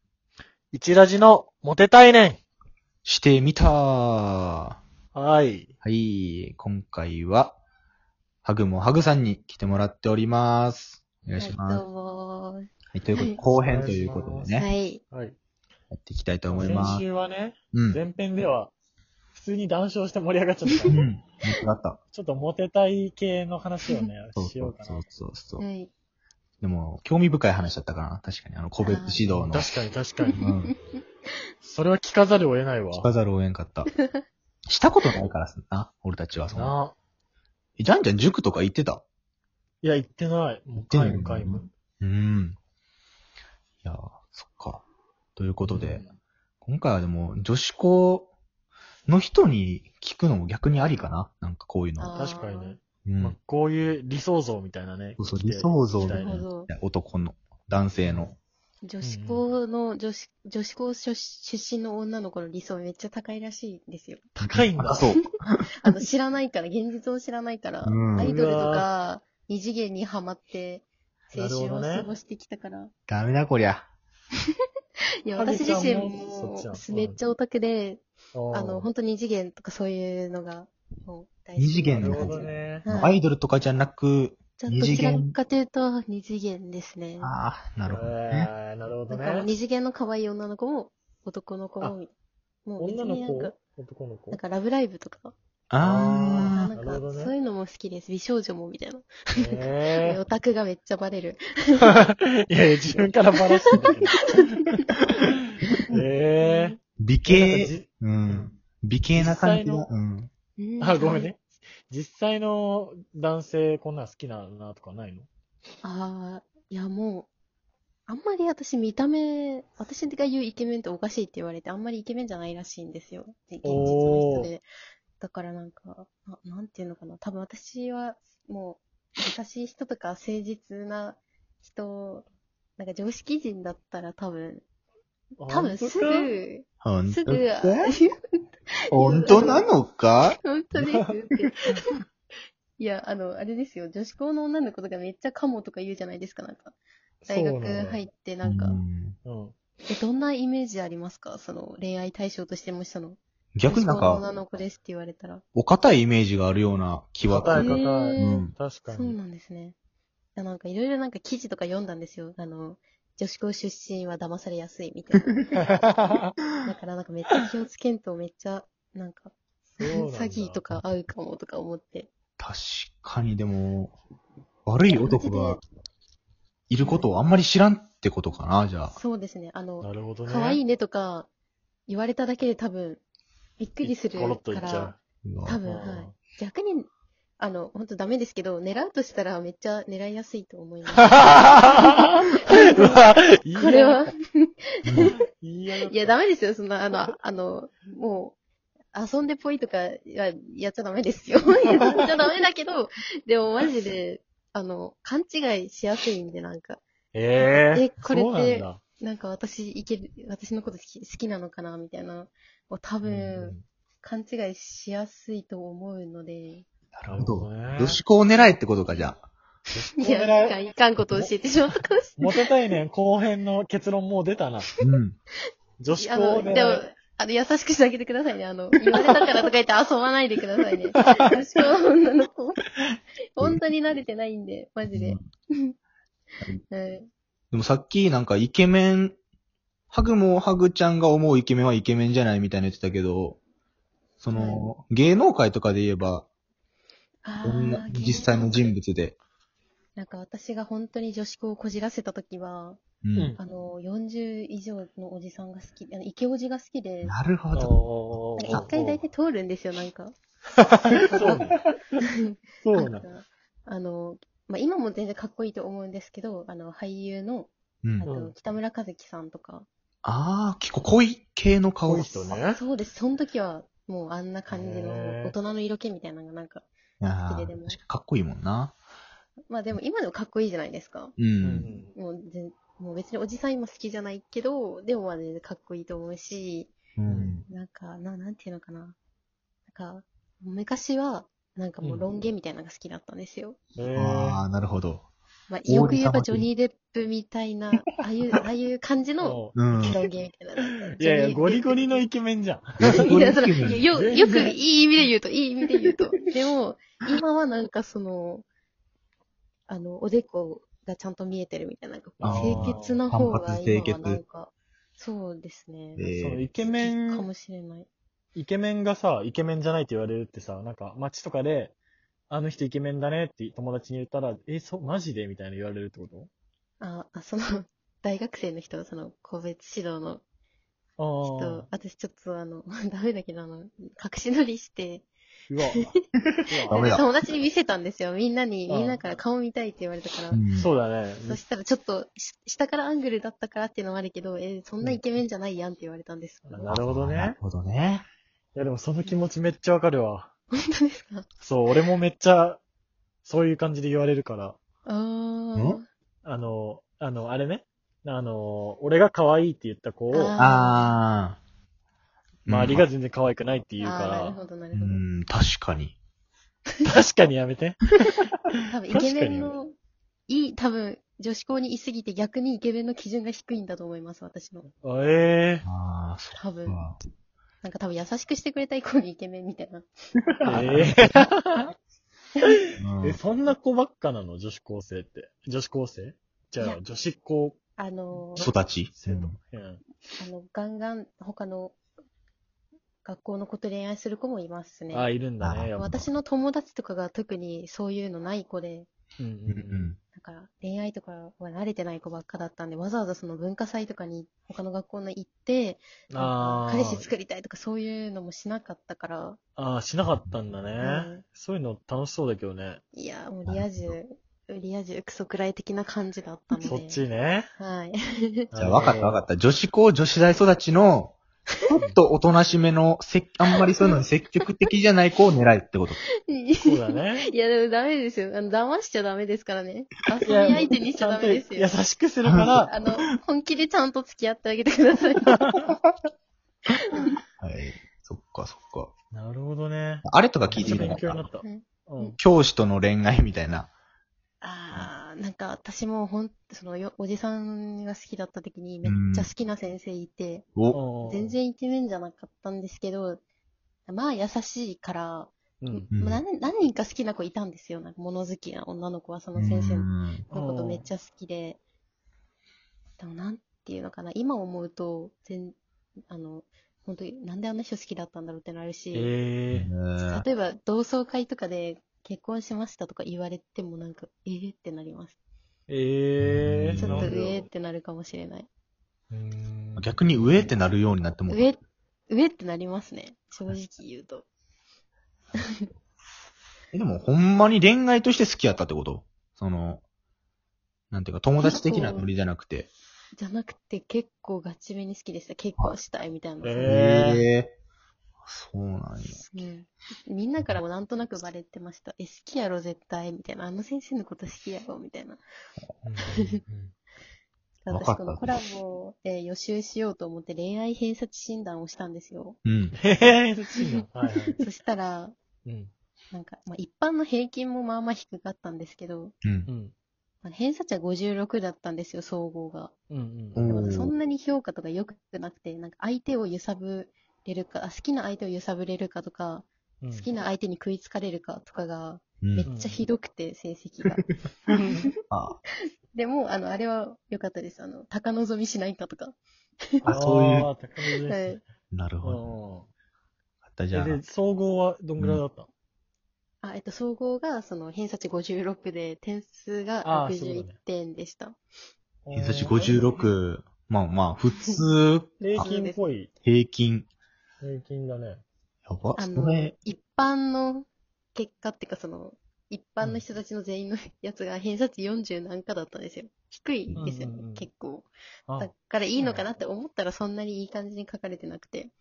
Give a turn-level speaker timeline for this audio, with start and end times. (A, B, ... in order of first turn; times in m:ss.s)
0:00.7-0:02.4 A
0:03.0-0:04.8 B
0:05.1-0:05.7 A
0:05.8-0:07.6 B
0:08.4-0:11.8 B
0:11.4-0:13.4 C
0:12.9-0:14.7 B
0:13.4-0:14.5 A
0:14.6-0:15.0 C
0:15.1-0:15.4 A
0:15.9-0:17.0 B
0:16.5-0:18.7 A
0:17.7-0:18.0 B
0:19.3-0:21.0 A
0:20.9-0:22.0 B
0:22.1-0:25.0 A
0:24.4-0:25.6 B
0:25.6-0:25.9 C
0:26.6-0:29.7 B
0:28.8-0:29.3 C
0:29.3-0:30.4 A
0:30.2-0:31.0 C
0:30.4-0:30.7 B
0:31.6-0:33.1 A
0:32.9-0:33.9 B
0:33.9-0:34.2 C
0:34.7-0:36.8 B
0:36.5-0:36.9 A
0:37.8-0:39.0 B
0:39.8-0:41.7 A
0:40.9-0:42.6 B
0:43.8-0:44.8 B
0:45.4-0:46.0 B
0:45.6-0:46.1 A
0:46.6-0:48.3 B
0:49.1-0:52.1 B
0:52.0-0:52.8 C
0:52.1-0:56.4 A
0:53.0-0:53.3 B
0:55.2-0:58.3 B
0:56.0-0:56.7 C
0:58.0-0:58.4 A
0:58.8-1:04.3 C
0:59.0-0:59.4 A
1:04.4-1:05.1 A
1:04.5-1:05.5 B
1:05.8-1:12.9 C
1:07.8-1:08.3 B
1:08.2-1:08.9 A
1:11.3-1:12.1 A
1:13.1-1:13.9 B
1:15.2-1:23.2 C
1:15.4-1:17.2 A
1:18.3-1:18.9 A
1:21.6-1:25.3 B
1:21.9-1:22.8 A
1:24.6-1:27.3 C
1:27.2-1:28.5 B
1:27.9-1:29.5 A
1:29.1-1:32.1 C
1:32.6-1:33.6 C
1:32.8-1:34.4 A
1:34.3-1:35.3 C
1:35.7-1:36.7 B
1:35.8-1:37.3 A
1:36.5-1:41.9 C
1:39.3-1:40.2 A
1:41.8-1:44.6 A
1:43.7-1:44.8 C
1:45.9-1:48.5 A
1:46.4-1:46.8 C
1:47.0-1:50.3 B
1:49.1-1:49.9 A
1:50.6-1:51.3 C
1:50.8-1:55.3 A
1:55.8-1:57.3 C
1:58.1-2:04.7 C
2:03.6-2:04.5 A
2:05.2-2:12.2 C
2:12.8-2:14.6 C
2:15.4-2:16.3 A
2:15.5-2:18.4 C
2:16.8-2:17.9 B
2:18.9-2:19.7 C
2:18.9-2:20.4 B
2:20.4-2:21.8 C
2:22.8-2:26.7 C
2:27.2-2:28.0 A
2:27.3-2:28.8 C
2:28.4-2:29.2 B
2:29.2-2:29.5 A
2:29.9-2:35.4 C
2:33.6-2:34.2 B
2:35.5-2:38.5 B
2:37.2-2:39.2 A
2:37.6-2:39.7 C
2:40.3-2:45.4 C
2:45.6-2:46.3 A
2:46.6-2:52.1 C
2:49.7-2:50.8 A
2:52.4-2:53.9 B
2:54.6-2:55.6 B
2:54.9-2:55.6 C
2:56.7-2:59.0 B
2:56.8-2:57.1 C
2:58.9-3:01.3 C
2:59.8-3:00.6 A
3:01.9-3:03.0 C
3:03.6-3:06.9 C
3:03.8-3:05.0 A
3:05.2-3:05.6 B
3:05.6-3:06.1 A
3:07.4-3:15.1 C
3:11.0-3:14.1 A
3:14.8-3:15.1 B
3:15.1-3:16.2 A
3:15.8-3:18.4 C
3:18.9-3:26.8 C
3:27.1-3:28.8 A
3:27.4-3:36.6 C
3:33.0-3:33.6 A
3:36.9-3:39.2 B
3:37.1-3:38.0 A
3:39.7-3:41.3 A
3:40.0-3:42.4 C
3:42.2-3:44.7 A
3:44.8-3:45.2 B
3:45.8-3:46.8 A
3:45.9-3:52.6 C
3:53.4-3:55.7 C
3:54.9-3:55.2 B
3:56.7-3:57.1 C
3:57.5-3:59.2 B
3:59.9-4:03.4 B
4:04.2-4:06.2 B
4:04.3-4:04.7 C
4:07.2-4:08.7 C
4:07.4-4:09.2 B
4:10.0-4:12.8 C
4:13.0-4:13.3 B
4:13.4-4:17.1 C
4:17.0-4:17.8 B
4:17.5-4:19.0 A
4:18.4-4:20.1 C
4:20.6-4:21.6 A
4:20.9-4:21.4 C
4:22.0-4:29.7 C
4:22.6-4:23.0 A
4:28.0-4:28.3 A
4:30.0-4:32.3 B
4:31.8-4:32.6 A
4:32.5-4:37.8 C
4:34.5-4:35.3 A
4:37.0-4:38.7 B
4:39.5-4:41.1 C
4:41.2-4:41.7 B
4:41.4-4:41.9 A
4:41.9-4:46.8 C
4:47.0-4:47.5 B
4:47.1-4:47.4 A
4:47.5-4:49.0 C
4:49.7-4:53.6 C
4:51.8-4:52.1 A
4:53.8-4:54.4 A
4:53.9-4:55.1 B
4:55.5-5:01.8 C
4:55.7-4:56.5 B
4:59.2-5:00.0 A
4:59.6-5:00.0 B
5:00.8-5:03.2 A
5:02.8-5:03.9 B
5:02.9-5:08.4 C
5:03.9-5:04.6 A
5:09.7-5:16.0 C
5:12.2-5:14.2 B
5:12.2-5:13.0 A
5:16.0-5:16.4 B
5:16.1-5:17.3 A
5:16.6-5:17.9 C
5:18.3-5:21.7 A
5:22.3-5:26.3 A
5:26.8-5:30.2 C
5:31.0-5:31.7 A
5:31.2-5:35.0 C
5:35.5-5:35.9 A
5:36.4-5:37.0 A
5:36.7-5:37.0 B
5:36.7-5:40.4 C
5:38.7-5:39.0 A
5:40.3-5:40.7 B
5:40.5-5:41.4 A
5:41.2-5:46.7 C
5:46.4-5:47.4 A
5:46.6-5:48.0 B
5:48.5-5:50.3 A
5:50.5-5:51.3 C
5:51.4-5:52.6 A
5:53.2-5:54.6 A
5:54.8-5:55.8 C
5:56.2-6:00.4 A
6:00.1-6:00.9 C
6:00.4-6:01.4 B
6:02.4-6:04.4 A
6:02.5-6:02.8 B
6:03.8-6:05.0 C
6:04.7-6:05.9 B
6:06.8-6:07.9 A
6:08.5-6:09.5 A
6:08.6-6:09.7 C
6:10.3-6:14.7 C
6:14.8-6:15.6 A
6:15.6-6:17.0 B
6:16.4-6:16.8 C
6:17.6-6:19.9 C
6:20.3-6:21.0 B
6:20.4-6:21.7 A
6:22.4-6:27.6 A
6:22.8-6:23.2 B
6:27.8-6:28.5 C
6:28.1-6:29.8 A
6:28.4-6:29.4 B
6:30.2-6:31.8 C
6:33.0-6:35.1 C
6:34.9-6:36.0 A
6:35.4-6:36.0 B
6:35.8-6:38.9 C
6:39.2-6:39.9 A
6:39.5-6:40.0 B
6:40.1-6:49.4 C
6:46.1-6:47.1 A
6:49.6-6:52.8 A
6:50.8-6:51.2 C
6:52.9-6:57.0 C
6:53.4-6:53.9 B
6:56.5-6:57.5 A
6:57.6-6:58.9 C
6:58.5-6:59.2 A
6:58.6-7:06.0 B
7:06.3-7:11.8 C
7:06.6-7:07.3 A
7:10.2-7:12.7 A
7:12.3-7:12.5 B
7:12.6-7:15.5 C
7:16.9-7:17.2 C
7:17.4-7:18.9 B
7:19.1-7:22.2 A
7:20.0-7:21.3 B
7:21.4-7:22.2 C
7:22.2-7:23.7 B
7:24.4-7:30.5 C
7:28.8-7:29.3 B
7:30.7-7:31.4 A
7:31.0-7:33.2 C
7:33.8-7:41.6 C
7:35.6-7:35.9 A
7:35.9-7:36.2 B
7:39.3-7:40.2 B
7:40.3-7:40.8 A
7:43.0-7:45.6 C
7:46.1-7:49.1 C
7:48.9-7:49.7 A
7:49.5-7:50.2 B
7:50.0-7:55.1 C
7:55.7-7:57.5 A
7:56.2-7:57.1 B
7:56.8-7:58.5 C
7:59.1-8:00.5 A
7:59.8-8:01.5 B
8:01.3-8:01.6 C
8:02.1-8:04.2 C
8:06.7-8:09.8 B
8:10.9-8:12.7 B
8:11.4-8:12.1 C
8:13.1-8:16.8 C
8:16.4-8:17.2 A
8:16.6-8:17.5 B
8:18.2-8:19.2 B
8:19.1-8:25.2 C
8:25.8-8:26.7 A
8:26.1-8:26.4 C
8:27.6-8:32.4 C
8:27.7-8:28.2 B
8:32.4-8:32.7 B
8:32.8-8:34.4 A
8:34.4-8:35.1 C
8:35.4-8:35.7 A
8:36.1-8:39.1 C
8:39.2-8:39.5 B
8:39.4-8:39.7 A
8:40.2-8:42.7 C
8:42.9-8:43.8 A
8:43.3-8:43.9 B
8:43.5-8:54.9 C
8:49.8-8:50.1 A
8:52.2-8:52.5 B
8:52.4-8:52.8 A
8:55.1-8:55.4 B
8:55.9-8:59.2 C
8:59.8-9:01.4 A
8:59.8-9:00.5 B
9:00.9-9:01.4 C
9:01.7-9:02.3 B
9:02.0-9:02.7 A
9:03.5-9:04.0 B
9:03.7-9:05.5 A
9:05.0-9:05.2 B
9:06.4-9:11.4 C
9:09.8-9:10.5 A
9:12.0-9:13.1 A
9:12.1-9:15.5 B
9:15.2-9:16.1 A
9:15.4-9:15.8 C
9:16.2-9:16.9 B
9:17.4-9:18.2 A
9:18.6-9:19.5 B
9:19.0-9:31.7 C
9:26.8-9:27.4 A
9:28.3-9:29.3 A